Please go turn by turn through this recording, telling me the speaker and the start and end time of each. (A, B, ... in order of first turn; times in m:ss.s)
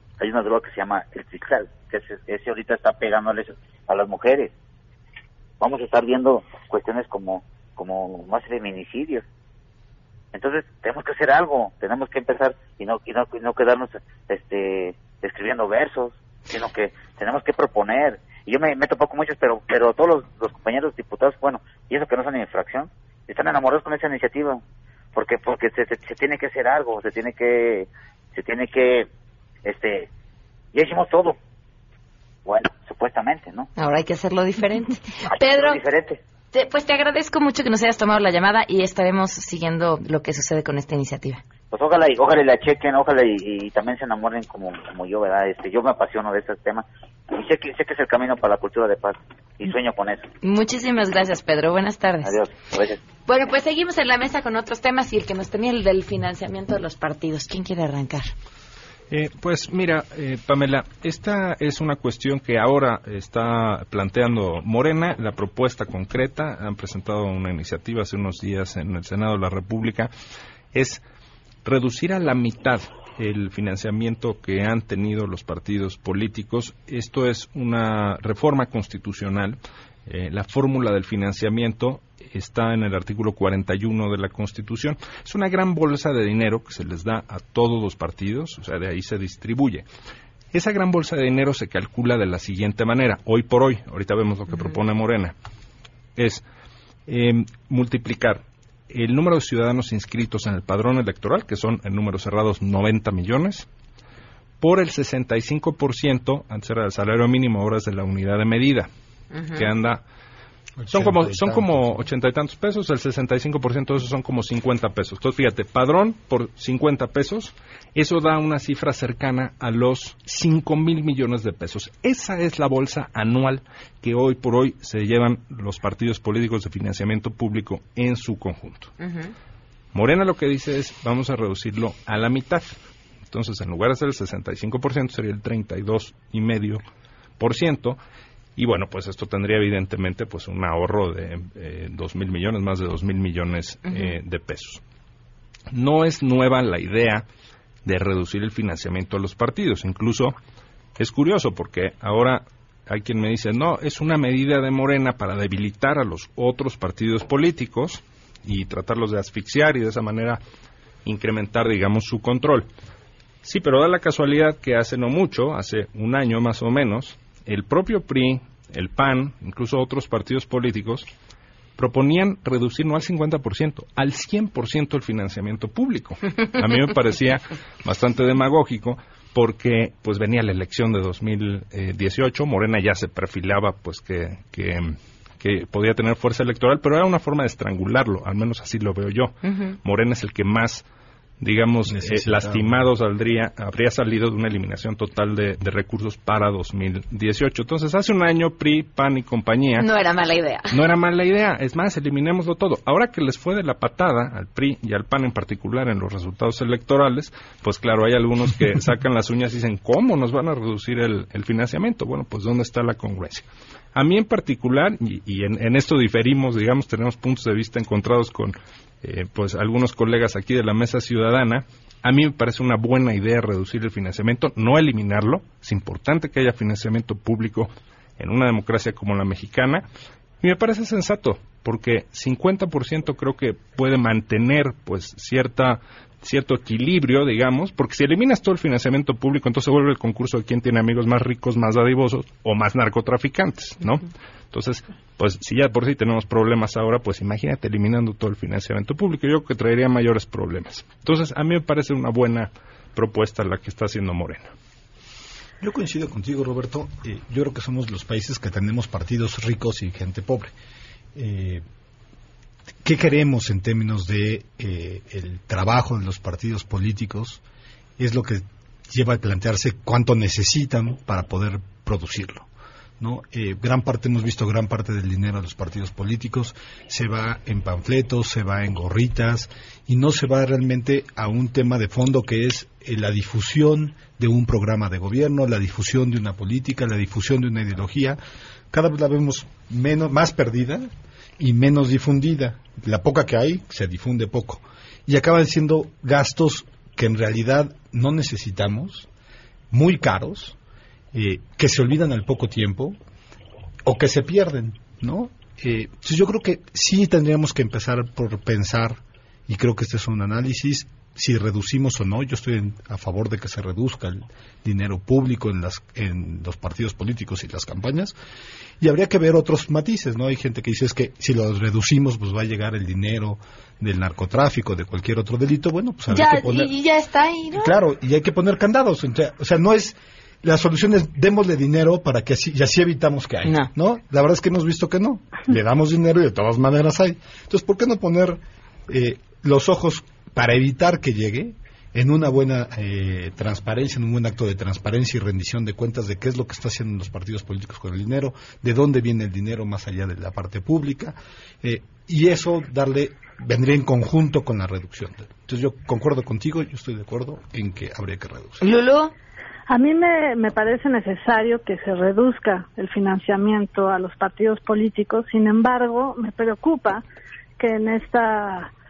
0:00.2-0:04.5 A
0:05.6-0:09.2 A
0:10.3-0:24.6 A
0:25.1-0:29.1 A
0:29.6-0:30.1 A
0:30.7-0:31.4 A
0:32.4-0:33.7 A
0:33.8-0:35.8 B
0:35.4-0:36.2 A
0:36.5-0:41.4 B
0:41.7-0:50.3 A
0:50.4-0:52.3 B
0:52.2-0:53.0 A
0:53.3-0:58.3 B
0:59.1-1:10.1 C
1:10.7-1:11.0 C
1:11.6-1:29.8 C
1:30.5-1:35.3 C
1:36.2-1:36.4 C
1:37.1-1:43.7 C
1:44.6-1:48.9 C
1:49.3-1:49.6 B
1:49.5-1:50.0 C
1:50.8-1:52.0 D
1:50.9-2:08.9 C
2:09.0-2:09.3 B
2:09.9-2:12.8 C
2:13.3-2:16.8 C
2:17.4-2:18.0 C
2:18.6-2:24.8 C
2:25.7-2:27.2 C
2:27.8-2:30.4 C
2:31.0-2:40.4 C
2:41.0-2:42.7 C
2:43.4-2:51.1 C
2:51.8-3:10.8 C
3:09.4-3:09.8 B
3:11.4-3:19.9 C
3:11.9-3:12.8 D
3:19.8-3:20.7 B
3:20.7-3:49.8 C
3:50.4-4:14.5 C
4:15.6-4:20.5 D
4:21.1-4:21.6 D
4:22.8-4:27.4 D
4:28.0-4:32.5 D
4:33.0-4:48.2 D
4:48.7-4:59.1 D
4:59.7-5:00.6 D
5:01.1-5:03.0 D
5:03.8-5:18.1 D
5:18.8-5:26.7 D
5:26.1-5:27.7 B
5:27.5-5:58.6 D
5:33.4-5:33.7 B
5:58.6-5:59.1 B
5:59.7-6:07.0 E
6:07.6-6:08.7 E